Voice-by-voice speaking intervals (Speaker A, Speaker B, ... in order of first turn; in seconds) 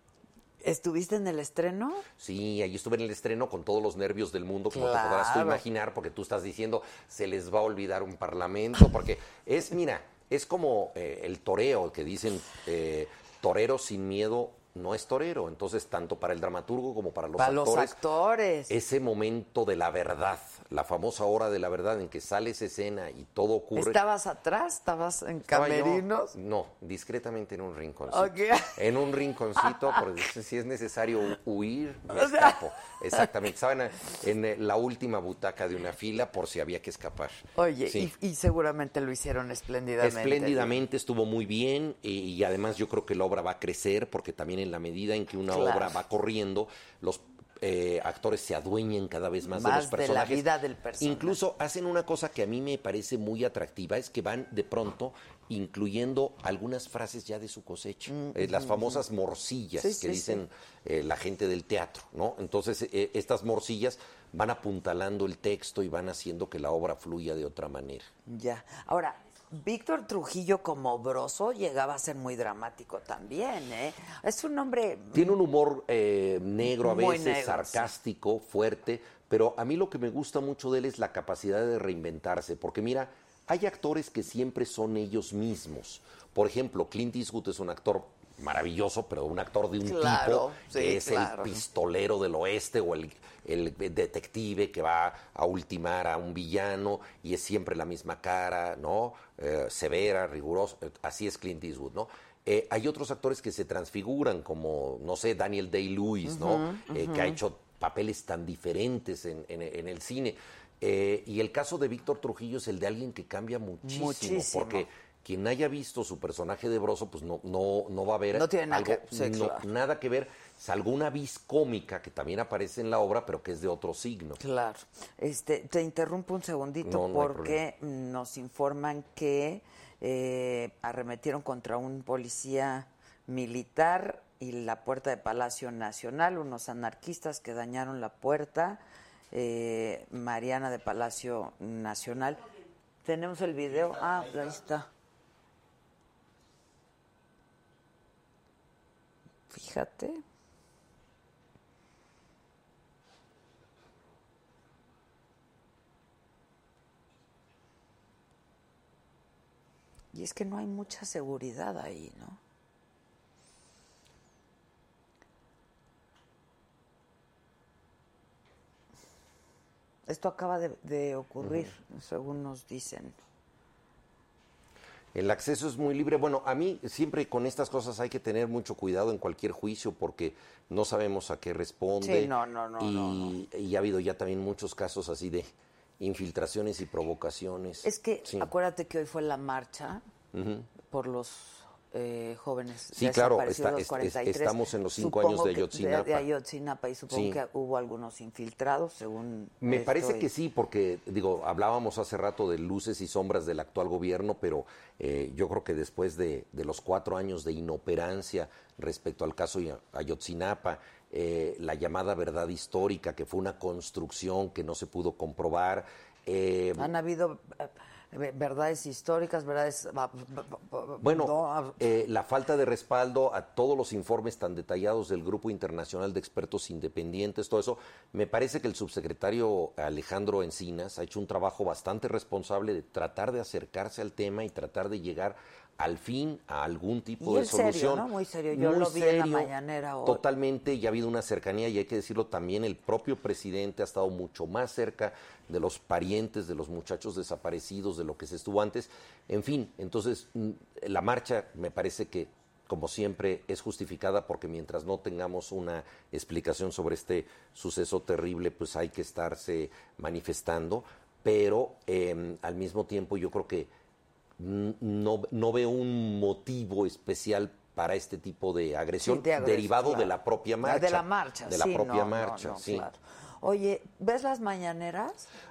Speaker A: 0.6-2.0, 4.7-5.6, 17.4-18.7, 23.8-26.3, 28.1-28.8, 29.6-30.0, 32.1-32.6, 37.5-40.8, 45.5-46.0, 49.5-51.4, 58.1-59.0, 59.8-60.4, 68.3-75.4, 76.6-77.9, 89.8-91.6, 106.2-107.4, 113.8-114.8, 118.3-119.7, 124.4-138.8, 139.3-142.4, 143.0-144.9, 149.5-150.2, 160.1-162.4, 170.1-173.2, 182.0-183.3, 187.8-190.0, 190.9-200.3, 216.8-221.8, 237.2-240.2, 269.0-275.3
Speaker B: 2.2-18.0, 18.7-24.0, 25.5-38.1, 40.0-50.5, 51.0-68.1, 75.1-124.4, 126.8-127.6, 171.4-171.7, 175.1-188.5, 190.3-190.7, 192.9-196.2, 197.1-197.4, 199.6-216.9, 221.0-239.5, 240.0-263.7, 264.4-272.9